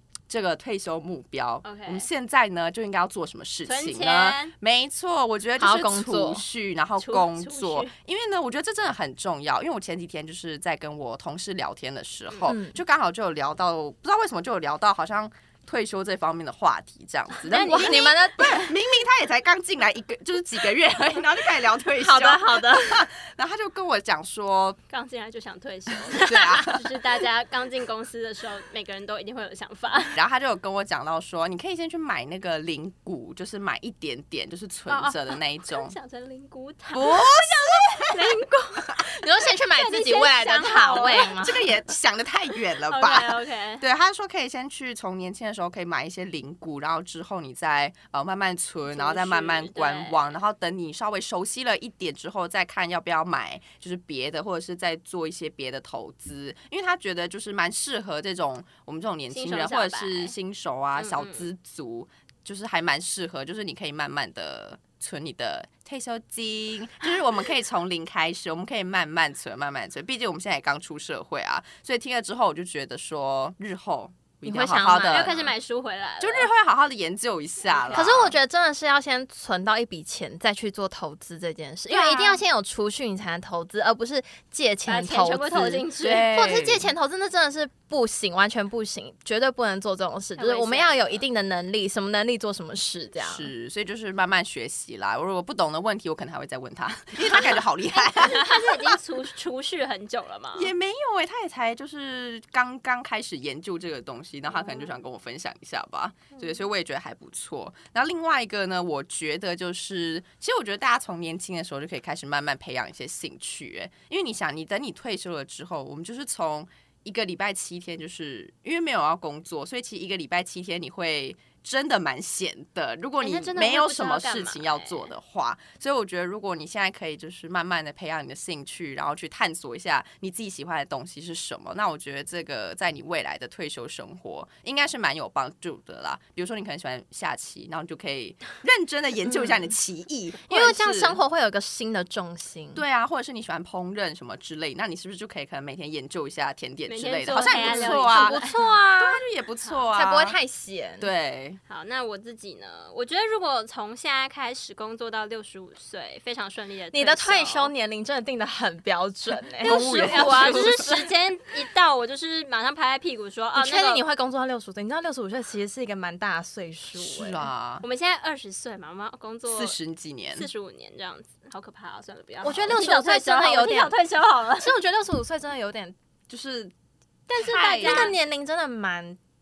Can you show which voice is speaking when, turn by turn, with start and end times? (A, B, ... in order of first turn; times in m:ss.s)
0:00.3-0:24.8 A
0:01.6-0:02.1 B
0:03.6-0:04.5 B
0:05.6-0:06.4 C
0:07.0-0:07.9 B
0:12.5-0:12.8 C
0:17.4-0:18.7 B
0:17.6-0:18.7 C
0:22.0-0:23.0 C
0:24.9-0:30.2 B
0:26.1-0:27.0 A
0:30.1-0:35.9 A
0:34.9-0:39.0 B
0:36.9-0:38.4 A
0:39.0-0:41.6 C
0:39.7-0:41.4 B
0:41.2-1:15.5 A
0:42.9-0:43.8 B
0:48.9-0:50.2 B
0:59.3-1:00.3 B
1:01.0-1:01.5 B
1:14.4-1:15.3 C
1:15.0-1:16.5 B
1:16.2-1:18.3 A
1:17.7-1:18.1 B
1:17.9-1:33.5 C
1:21.9-1:22.4 A
1:24.9-1:26.3 B
1:26.0-1:26.9 A
1:30.4-1:31.2 B
1:33.2-1:39.0 A
1:38.0-1:40.7 B
1:40.5-2:21.2 A
1:44.5-1:44.9 B
2:03.2-2:05.1 B
2:20.5-2:22.8 C
2:22.7-2:30.4 A
2:26.9-2:28.6 B
2:27.3-2:29.2 C
2:29.9-2:31.1 C
2:31.0-2:31.6 A
2:31.7-2:37.7 B
2:36.9-2:41.1 C
2:39.6-2:44.0 B
2:39.6-2:40.9 A
2:43.6-2:47.5 C
2:47.0-2:47.8 A
2:47.8-2:49.8 B
2:49.5-2:50.5 A
2:50.3-2:54.7 B
2:52.4-2:53.9 C
2:54.6-2:55.9 C
2:56.3-2:56.7 A
2:57.3-2:59.2 C
2:57.3-2:58.1 B
2:57.6-2:58.1 A